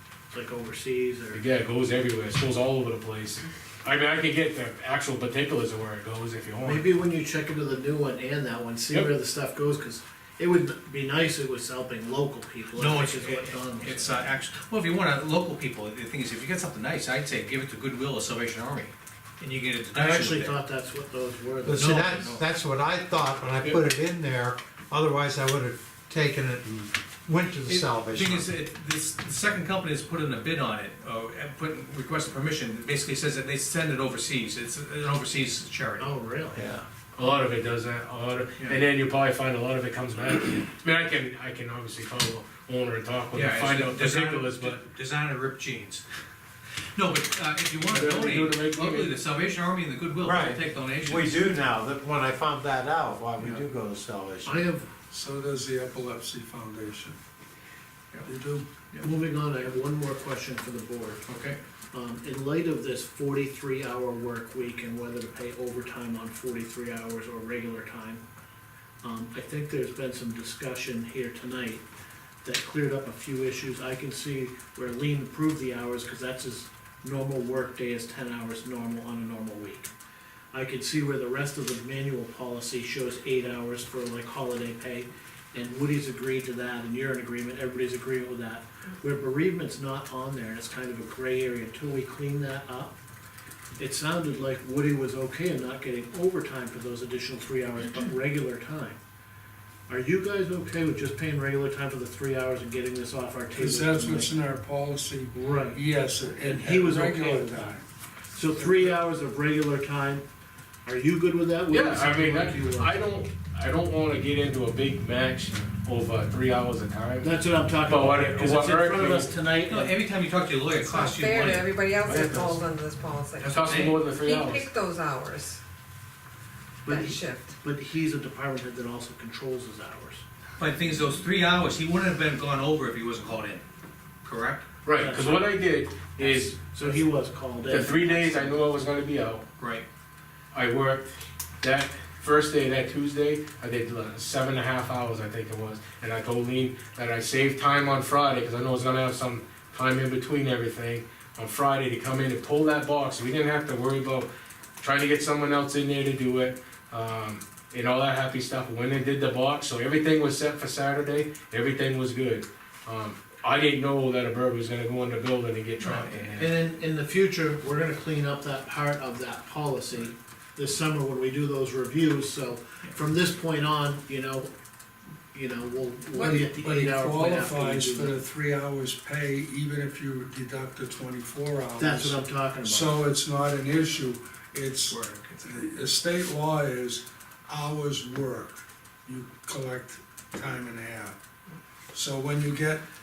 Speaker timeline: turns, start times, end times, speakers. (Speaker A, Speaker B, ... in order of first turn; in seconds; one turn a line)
Speaker A: 0.3-1.4
Speaker B: 1.3-6.9
Speaker A: 6.6-14.2
Speaker C: 12.8-20.6
Speaker A: 19.9-22.2
Speaker D: 21.6-28.5
Speaker C: 21.7-22.4
Speaker C: 27.7-36.1
Speaker A: 36.0-36.6
Speaker D: 36.5-36.9
Speaker B: 37.1-44.8
Speaker C: 43.3-46.0
Speaker C: 46.9-51.4
Speaker B: 47.9-49.1
Speaker D: 50.2-54.6
Speaker A: 54.5-54.9
Speaker E: 55.1-57.2
Speaker E: 58.2-58.7
Speaker A: 59.0-61.2
Speaker C: 61.2-61.6
Speaker A: 61.9-68.2
Speaker A: 69.0-71.8
Speaker A: 72.4-79.9
Speaker A: 80.5-93.0
Speaker A: 93.8-99.0
Speaker A: 99.9-104.3
Speaker E: 103.5-107.8
Speaker A: 105.4-105.8
Speaker A: 106.4-107.8
Speaker A: 108.3-110.2
Speaker A: 110.8-113.0
Speaker B: 111.7-117.3
Speaker A: 117.2-119.9
Speaker B: 117.8-119.3
Speaker C: 119.7-122.6
Speaker F: 120.8-125.6
Speaker C: 123.4-124.0
Speaker B: 123.5-124.7
Speaker A: 126.8-130.2
Speaker F: 126.9-127.6
Speaker C: 130.6-133.6
Speaker C: 134.2-134.7
Speaker B: 134.8-137.1
Speaker A: 134.9-138.6
Speaker B: 137.7-139.4
Speaker C: 139.6-139.8
Speaker B: 140.5-141.1
Speaker B: 141.6-154.3
Speaker B: 154.8-166.6
Speaker C: 165.8-166.3
Speaker A: 166.4-174.5
Speaker A: 175.3-178.1
Speaker E: 176.1-191.2
Speaker A: 181.8-183.0
Speaker C: 184.9-185.6
Speaker E: 191.9-192.8